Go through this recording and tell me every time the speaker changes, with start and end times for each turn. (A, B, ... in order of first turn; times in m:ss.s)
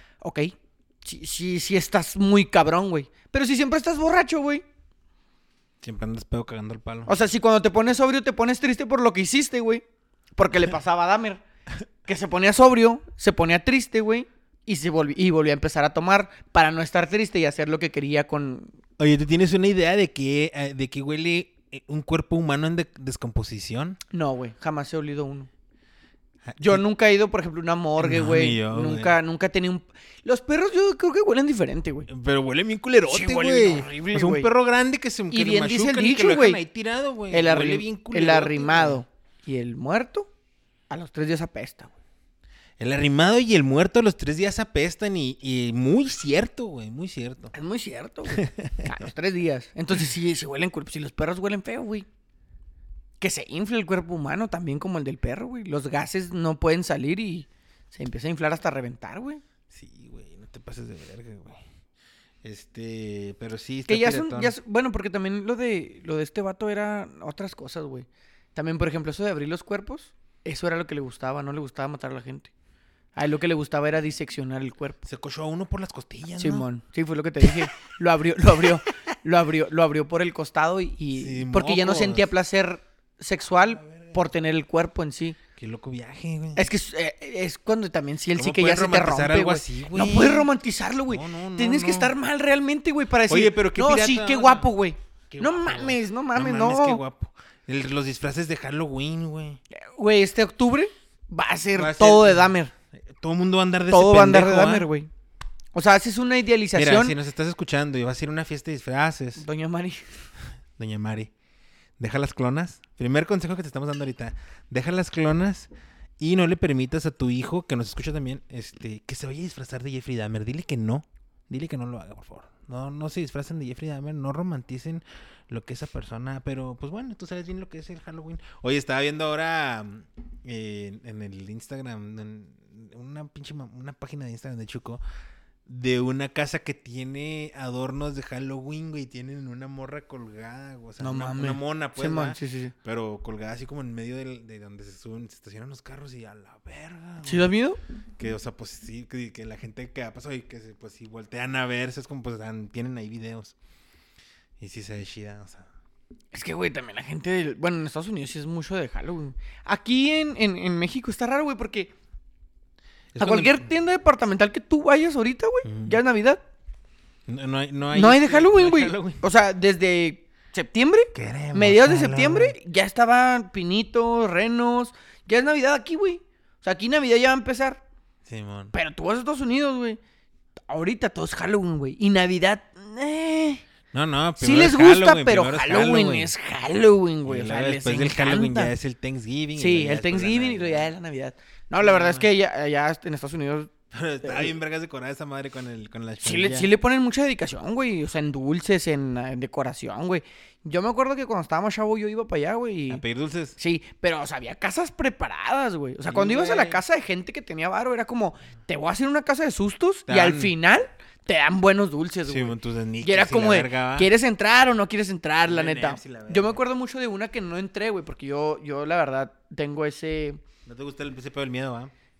0:00.2-0:04.6 A
0:05.8-0:07.1 B
0:07.0-0:09.8 A
0:10.4-0:11.4 A
0:12.0-0:18.7 A
0:19.0-0:24.0 B
0:24.1-0:25.5 A
0:26.5-0:26.8 B
0:26.6-0:32.1 A
0:28.0-0:29.2 B
0:32.1-0:39.0 B
0:33.1-0:34.5 A
0:35.3-0:36.6 A
0:37.3-0:40.3 A
0:40.9-0:41.9 A
0:42.8-0:47.5 B
0:47.5-0:52.1 A
0:48.3-0:48.9 B
0:53.2-0:59.4 A
0:59.7-1:01.6 B
1:02.4-1:04.5 B
1:03.9-1:12.5 A
1:13.2-1:15.0 A
1:15.0-1:16.6 B
1:16.4-1:25.4 A
1:21.1-1:22.3 B
1:23.8-1:24.2 B
1:25.6-1:26.7 B
1:26.6-1:37.0 A
1:28.4-1:30.5 B
1:31.1-1:32.1 B
1:33.3-1:34.7 B
1:35.3-1:39.6 B
1:39.7-1:42.7 A
1:41.7-1:42.5 B
1:43.1-1:44.9 B
1:43.9-1:45.1 A
1:45.7-1:47.2 A
1:46.7-1:49.4 B
1:49.4-1:50.1 A
1:50.8-1:51.3 B
1:52.0-2:15.0 B
2:15.7-2:27.5 B
2:21.0-2:22.7 A
2:27.2-2:27.8 A
2:28.2-2:33.5 B
2:34.6-2:35.7 B
2:36.3-2:41.9 A
2:43.1-2:43.6 B
2:43.2-2:46.4 A
2:45.6-2:46.0 B
2:47.3-2:49.2 B
2:47.9-2:57.8 A
2:51.1-2:52.5 B
2:58.2-2:58.7 B
2:58.7-3:00.0 A
3:00.7-3:03.6 A
3:03.9-3:06.3 B
3:04.4-3:08.7 A
3:07.2-3:10.9 B
3:09.6-3:13.7 A
3:11.8-3:12.3 B
3:13.9-3:16.7 B
3:14.2-3:14.5 A
3:16.2-3:23.0 A
3:22.9-3:23.6 B
3:23.6-3:40.4 A
3:26.0-3:26.8 B
3:30.1-3:30.5 B
3:32.3-3:34.1 B
3:35.4-3:36.6 B
3:40.6-3:41.9 B